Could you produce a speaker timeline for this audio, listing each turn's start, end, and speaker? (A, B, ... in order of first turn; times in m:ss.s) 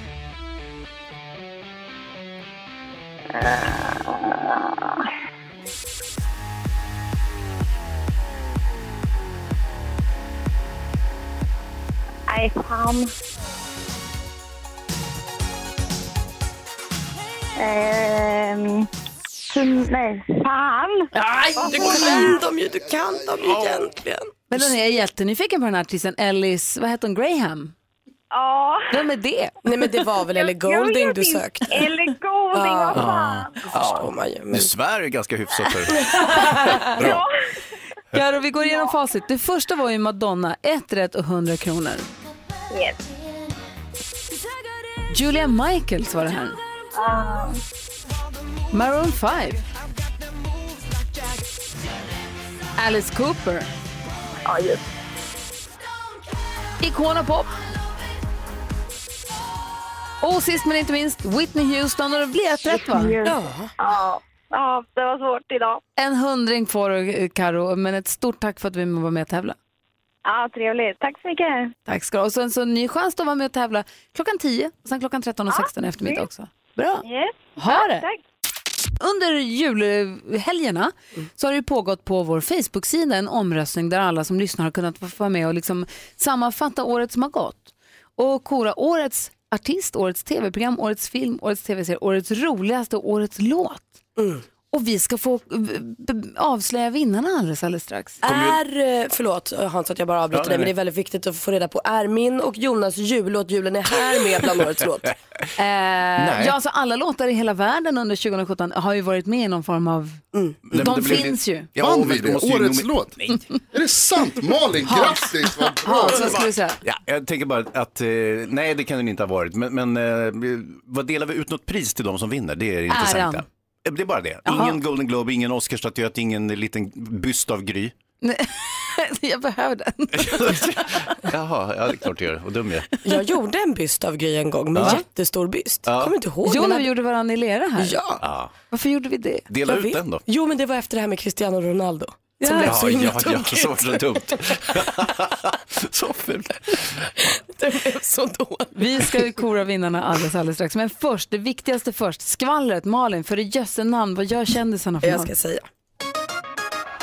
0:03.3-0:05.1 A
0:12.3-0:13.1 A
0:17.6-0:22.3 A
0:21.1-0:22.3 B
0:21.6-0:24.7 C
0:23.4-0:23.9 D
0:24.5-0:27.7 B
0:28.3-0:29.0 A
0:28.9-0:29.5 B
0:29.6-0:31.9 C
0:30.3-0:34.1 A
0:32.5-0:33.1 C
0:32.9-0:34.0 D
0:33.7-0:34.7 C
0:34.5-0:36.2 D
0:36.0-0:36.8 C
0:36.8-0:37.2 D
0:36.9-0:37.4 A
0:38.1-0:42.1 B
0:42.7-0:43.0 A
0:45.1-0:46.6 B
0:46.9-0:47.6 A
0:48.7-0:49.6 B
0:52.8-0:53.7 B
0:54.4-0:54.8 A
0:56.8-0:57.5 B
1:00.2-1:03.1 B
1:02.7-1:05.8 A
1:03.2-1:03.7 C
1:06.0-1:09.6 B
1:10.2-1:11.7 A
1:11.9-1:17.0 B
1:15.5-1:16.2 A
1:17.0-1:18.2 A
1:17.6-1:18.1 B
1:19.0-1:33.9 B
1:34.2-1:34.4 C
1:34.7-1:38.2 B
1:38.2-1:45.1 C
1:38.2-1:38.6 D
1:40.3-1:40.7 D
1:45.6-1:50.2 B
1:46.2-1:46.5 D
1:50.7-1:53.4 D
1:50.7-1:51.7 B
1:51.8-1:53.1 E
1:53.7-1:56.4 E
1:54.9-1:56.8 B
1:56.1-2:07.9 D
2:02.9-2:03.4 B
2:04.4-2:04.8 B
2:08.2-2:10.9 B
2:10.1-2:13.0 D
2:13.0-2:16.9 C
2:14.7-2:15.0 D
2:15.8-2:16.1 D
2:16.4-2:18.0 B
2:17.8-2:18.2 C
2:18.2-2:18.5 D
2:18.7-2:19.5 B
2:19.5-2:20.2 D
2:19.6-2:25.0 C
2:22.4-2:22.8 B
2:22.6-2:27.3 D
2:27.4-2:29.2 C
2:28.7-2:35.3 B
2:35.0-2:35.6 C